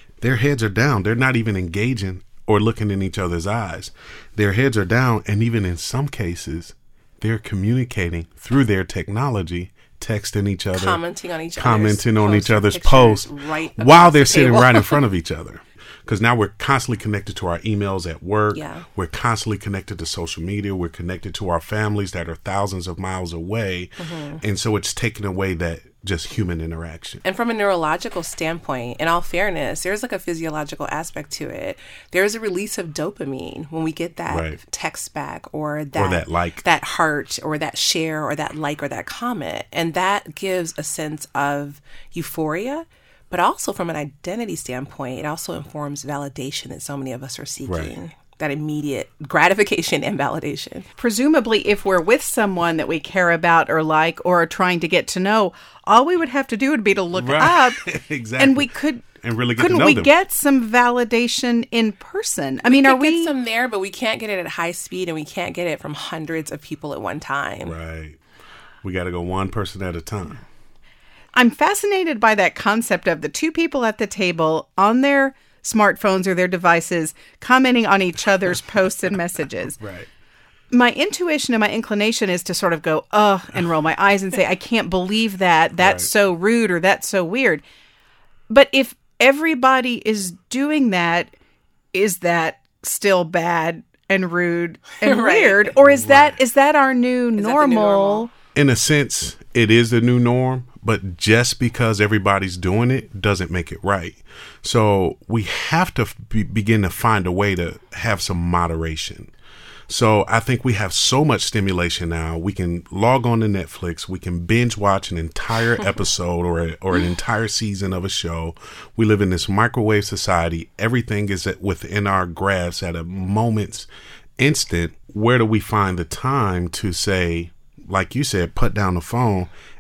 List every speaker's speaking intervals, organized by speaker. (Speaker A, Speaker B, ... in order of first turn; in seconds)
Speaker A: 0.2-11.0, 11.6-27.2, 34.3-34.6, 35.9-36.6, 47.6-47.9, 57.1-60.1, 67.6-68.2, 68.8-70.4, 79.8-80.1, 85.8-86.1, 95.8-96.4, 98.5-109.3, 109.9-129.5
Speaker B: 10.8-15.0, 18.5-18.9, 24.0-24.4, 27.2-50.9, 62.6-67.7, 95.0-95.8, 97.3-98.3
Speaker C: 51.0-57.8, 58.4-63.3, 71.3-79.8, 80.7-87.6, 88.5-91.3, 91.9-98.3